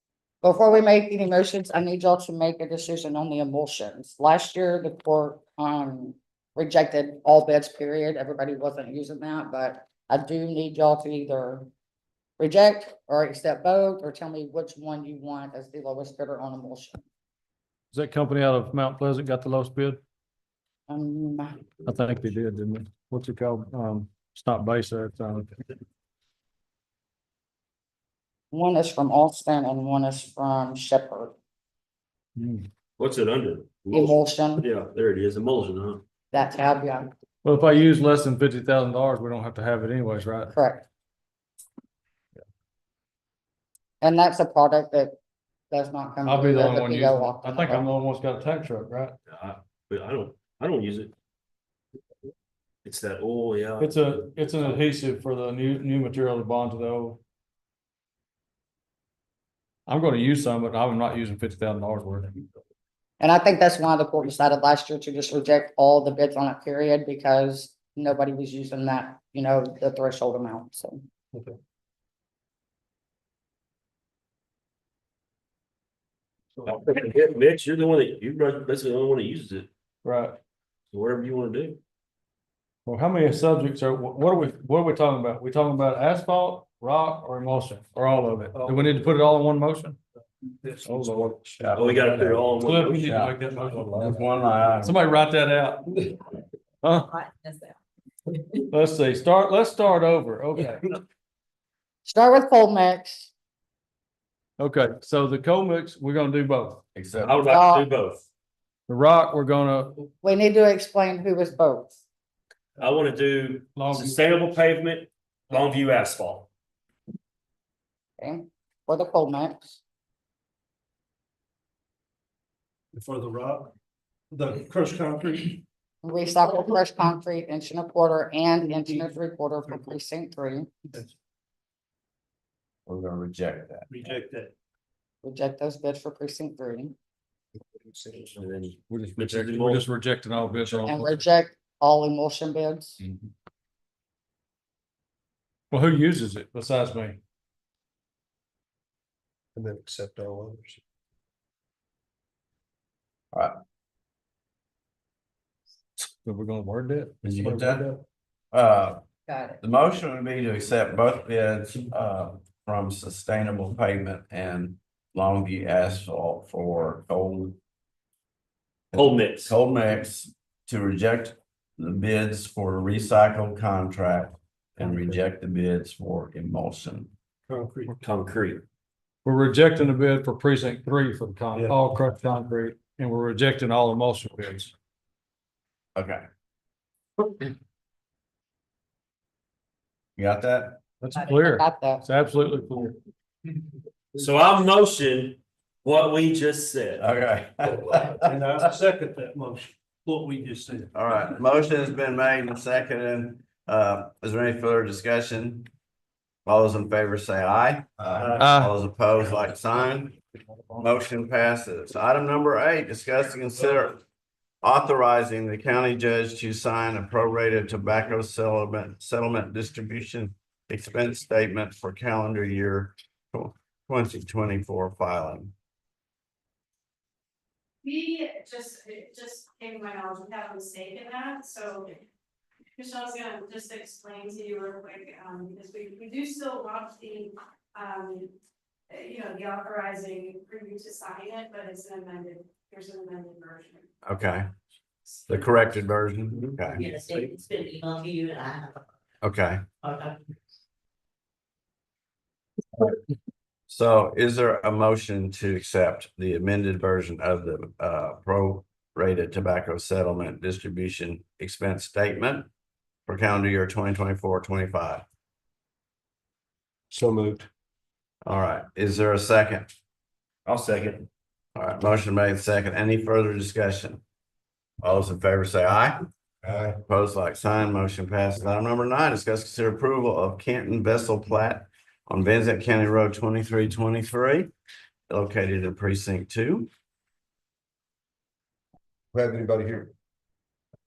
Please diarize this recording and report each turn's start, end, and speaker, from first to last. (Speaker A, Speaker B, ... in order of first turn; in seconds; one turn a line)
Speaker A: 0.4-11.7
Speaker A: 12.4-17.0
Speaker B: 17.9-20.0
Speaker A: 20.9-21.7
Speaker B: 21.8-25.6
Speaker A: 28.5-31.3
Speaker B: 32.4-32.7
Speaker C: 33.0-36.0
Speaker A: 33.9-34.7
Speaker A: 36.3-37.1
Speaker B: 37.4-40.5
Speaker A: 40.5-40.9
Speaker A: 44.0-45.1
Speaker A: 45.7-47.9
Speaker B: 46.2-49.1
Speaker C: 49.3-51.1
Speaker C: 52.8-54.4
Speaker B: 53.8-57.2
Speaker B: 59.9-62.4
Speaker A: 63.2-71.0
Speaker C: 76.6-79.7
Speaker B: 80.0-80.4
Speaker C: 80.9-81.8
Speaker B: 82.8-90.0
Speaker D: 88.5-89.1
Speaker D: 90.6-91.7
Speaker B: 90.8-91.4
Speaker E: 91.6-92.5
Speaker C: 91.7-93.2
Speaker B: 92.6-94.2
Speaker E: 93.0-93.3
Speaker E: 93.9-95.1
Speaker B: 94.8-96.2
Speaker B: 96.8-97.1
Speaker F: 97.2-97.7
Speaker B: 98.7-100.8
Speaker A: 102.0-103.3
Speaker B: 104.6-106.8
Speaker E: 106.9-107.4
Speaker C: 107.2-108.2
Speaker A: 107.4-107.9
Speaker B: 108.9-110.1
Speaker A: 110.2-112.0
Speaker C: 112.8-116.5
Speaker B: 113.8-114.4
Speaker A: 118.2-119.8
Speaker D: 122.9-123.7
Speaker D: 124.3-125.6
Speaker A: 126.0-130.7
Speaker E: 132.8-133.9
Speaker D: 133.9-134.5
Speaker A: 135.2-136.9
Speaker D: 137.6-138.5
Speaker C: 138.4-139.8
Speaker B: 138.9-141.2
Speaker A: 140.8-143.0
Speaker B: 145.7-147.2
Speaker D: 149.5-150.8
Speaker B: 156.0-157.8
Speaker E: 157.2-157.9
Speaker D: 157.5-158.0
Speaker E: 158.5-159.0
Speaker A: 159.3-159.6
Speaker E: 159.6-167.6
Speaker E: 168.9-177.1
Speaker C: 168.9-169.5
Speaker D: 174.8-175.2
Speaker D: 177.5-177.9
Speaker C: 177.9-178.6
Speaker B: 179.2-184.7
Speaker D: 181.5-181.8
Speaker E: 185.9-186.2
Speaker E: 190.2-190.8
Speaker B: 191.0-192.9
Speaker A: 191.2-192.0
Speaker C: 194.1-197.0
Speaker E: 197.0-198.3
Speaker D: 198.1-200.9
Speaker E: 200.9-205.7
Speaker E: 206.4-210.2
Speaker D: 208.1-208.5
Speaker B: 208.4-208.7
Speaker E: 210.7-214.0
Speaker E: 214.6-225.5
Speaker G: 227.8-231.9
Speaker G: 232.7-238.3
Speaker G: 238.9-243.8
Speaker E: 244.0-244.5
Speaker G: 245.2-245.6
Speaker E: 245.3-246.9
Speaker F: 246.7-248.8
Speaker E: 249.2-249.6
Speaker F: 249.8-250.2
Speaker E: 253.7-262.5
Speaker E: 263.1-265.0
Speaker D: 266.9-267.5
Speaker E: 268.2-269.7
Speaker C: 270.4-271.1
Speaker E: 271.6-274.0
Speaker E: 274.8-276.1
Speaker D: 276.4-276.8
Speaker E: 276.8-284.5
Speaker E: 285.1-286.7
Speaker D: 289.3-289.9